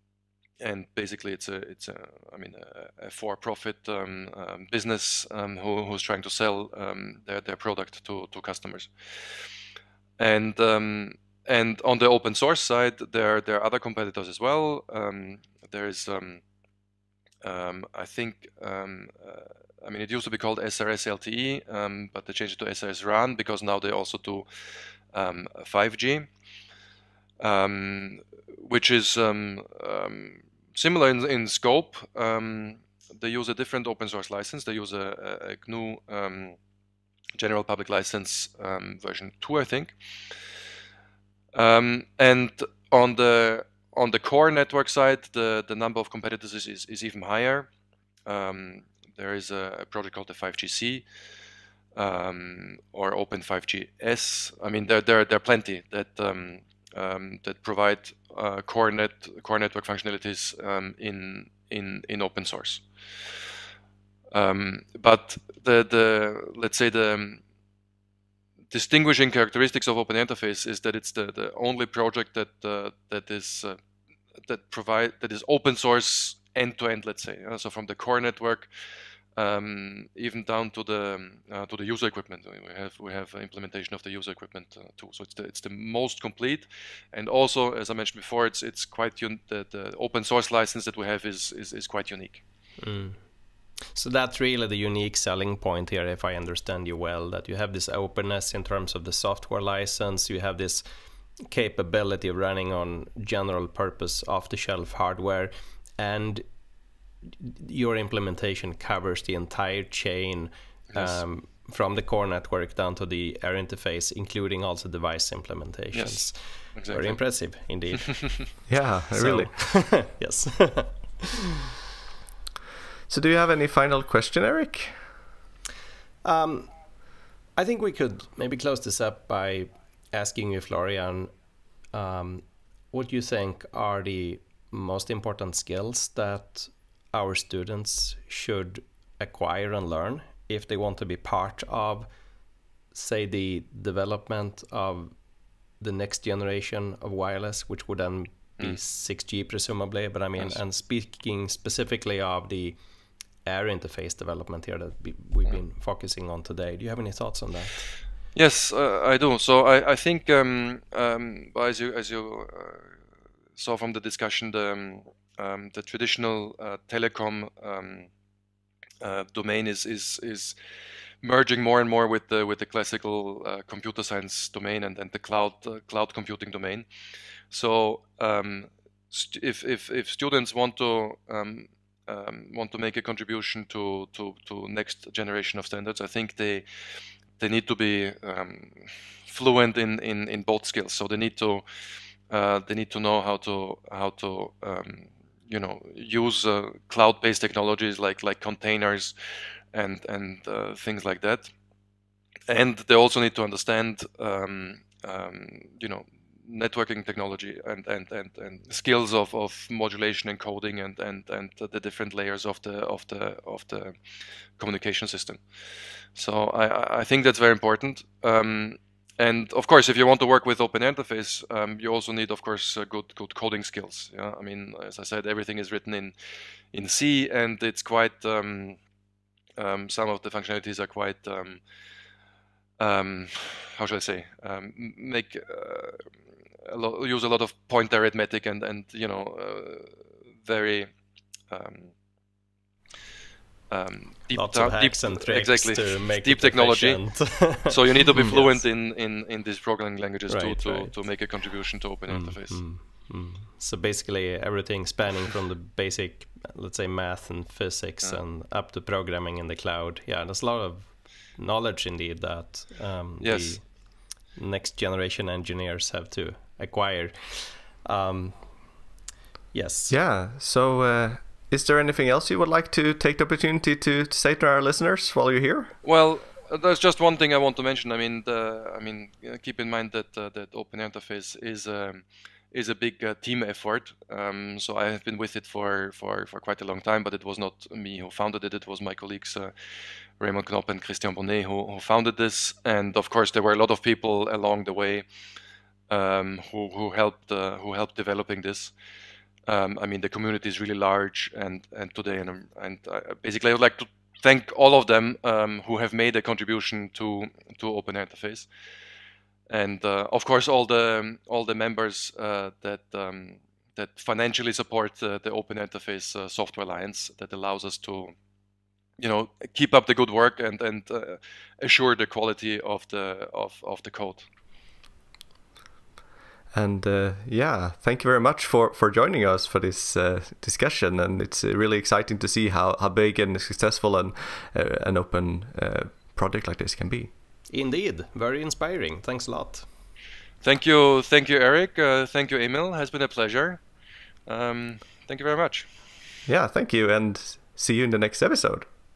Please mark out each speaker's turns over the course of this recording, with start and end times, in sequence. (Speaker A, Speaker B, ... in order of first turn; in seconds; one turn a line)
Speaker A: 0.6-9.3
Speaker A: 10.2-16.4
Speaker A: 17.4-24.5
Speaker A: 25.1-26.3
Speaker A: 27.4-36.6
Speaker A: 37.4-39.9
Speaker A: 41.5-47.7
Speaker A: 48.2-51.0
Speaker A: 51.9-62.8
Speaker A: 64.3-67.4
Speaker A: 68.7-73.8
Speaker A: 74.4-78.7
Speaker A: 79.3-92.4
Speaker B: 92.8-93.2
Speaker B: 93.9-100.8
Speaker B: 101.4-106.4
Speaker B: 107.2-121.6
Speaker A: 110.9-111.2
Speaker A: 115.9-117.2
Speaker C: 118.7-119.5
Speaker C: 123.1-124.9
Speaker B: 126.2-126.7
Speaker B: 127.5-131.3
Speaker B: 131.9-142.1
Speaker B: 142.9-145.1
Speaker B: 145.8-152.8
Speaker B: 153.4-157.9
Speaker A: 158.3-163.0
Speaker A: 163.6-168.1
Speaker A: 169.0-170.6
Speaker A: 171.2-176.8
Speaker A: 177.5-186.7
Speaker A: 187.4-191.7
Speaker A: 192.3-199.1
Speaker A: 199.7-201.5
Speaker A: 202.5-214.0
Speaker A: 214.6-215.4
Speaker A: 216.1-226.1
Speaker A: 226.7-228.8
Speaker A: 229.6-231.6
Speaker A: 232.8-236.1
Speaker A: 236.6-240.9
Speaker A: 241.5-241.9
Speaker A: 243.7-252.6
Speaker B: 244.3-248.6
Speaker B: 250.3-250.9
Speaker B: 252.1-263.8
Speaker A: 263.2-263.6
Speaker B: 264.3-268.5
Speaker B: 269.5-269.9
Speaker C: 269.9-275.7
Speaker A: 275.8-289.5
Speaker A: 290.2-295.1
Speaker A: 295.9-298.7
Speaker A: 299.4-308.5
Speaker A: 309.5-318.1
Speaker A: 319.0-324.3
Speaker C: 326.5-337.1
Speaker B: 337.5-339.6
Speaker A: 340.4-343.6
Speaker A: 344.3-345.7
Speaker C: 346.2-348.7